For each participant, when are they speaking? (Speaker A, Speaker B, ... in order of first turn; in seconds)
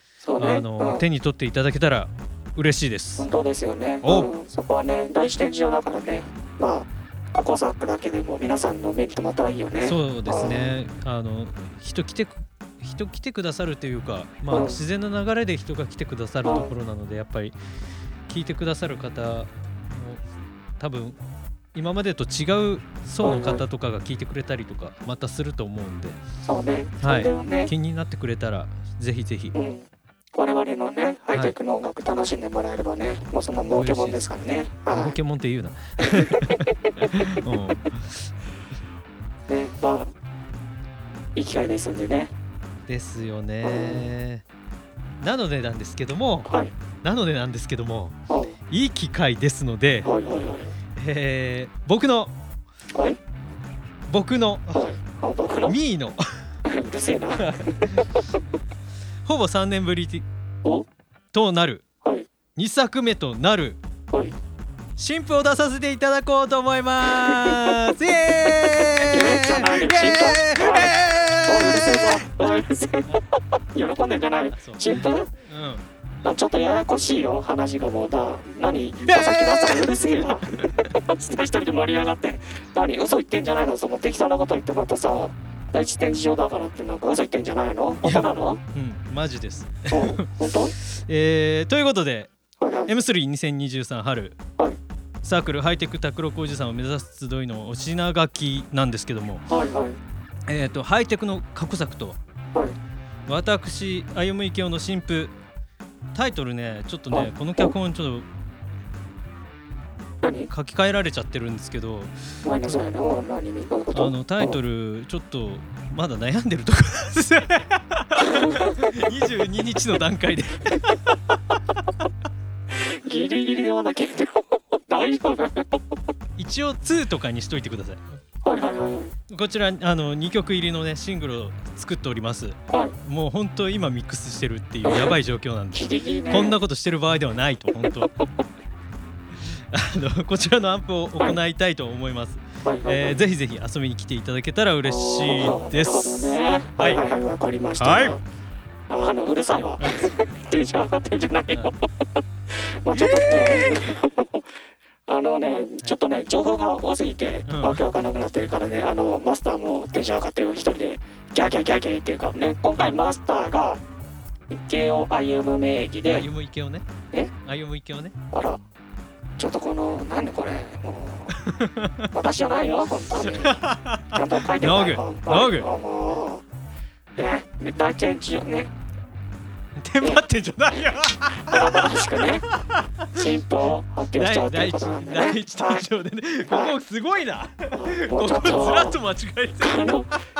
Speaker A: 0.2-1.0, 3.2-10.7, 14.5-14.8, 16.4-16.7, 23.2-23.6, 26.4-27.7, 29.5-35.1, 36.0-36.4, 39.5-40.1, 41.4-42.3, 46.5-46.7, 48.3-48.5, 50.0-50.7, 54.7-55.7, 56.6-57.8, 69.1-73.2, 73.7-75.3, 76.2-88.6, 89.9-90.7, 92.6-92.9, 99.5-100.0, 110.2-110.5, 112.4-114.5, 118.2-118.7, 122.9-125.8, 128.4-129.1, 132.7-132.9, 135.7-136.5, 142.6-143.2, 144.9-148.2, 148.9-151.8, 152.8-154.4, 155.1-163.8, 164.5-166.2, 168.3-168.6, 169.4-171.3, 172.1-176.4, 177.2-178.7, 181.4-182.5, 183.1-185.8, 186.5-186.7, 187.8-189.0, 189.6-190.1
Speaker B: 0.4-3.2, 4.0-4.3, 9.8-17.6, 18.3-20.2, 20.8-21.2, 21.7-26.2, 27.0-29.5, 33.7-34.2, 34.9-38.3, 42.9-44.4, 45.2-46.5, 47.0-48.1, 48.7-50.1, 51.0-52.3, 54.1-54.8, 55.6-56.2, 57.4-58.0, 59.2-60.2, 61.3-61.8, 62.5-63.8, 65.0-72.2, 74.5-75.8, 79.0-80.0, 80.6-80.8, 88.0-92.3, 92.9-94.4, 95.2-99.5, 100.5-102.2, 103.3-105.3, 106.1-108.3, 110.5-112.1, 113.9-121.0, 126.4-128.0, 129.3-138.1, 139.7-147.0, 147.8-148.2, 149.8-150.1, 152.9-153.7, 157.5-157.8, 166.1-166.8, 167.4-168.7, 171.4-172.1, 173.2-175.7, 179.8-182.2, 184.2-189.9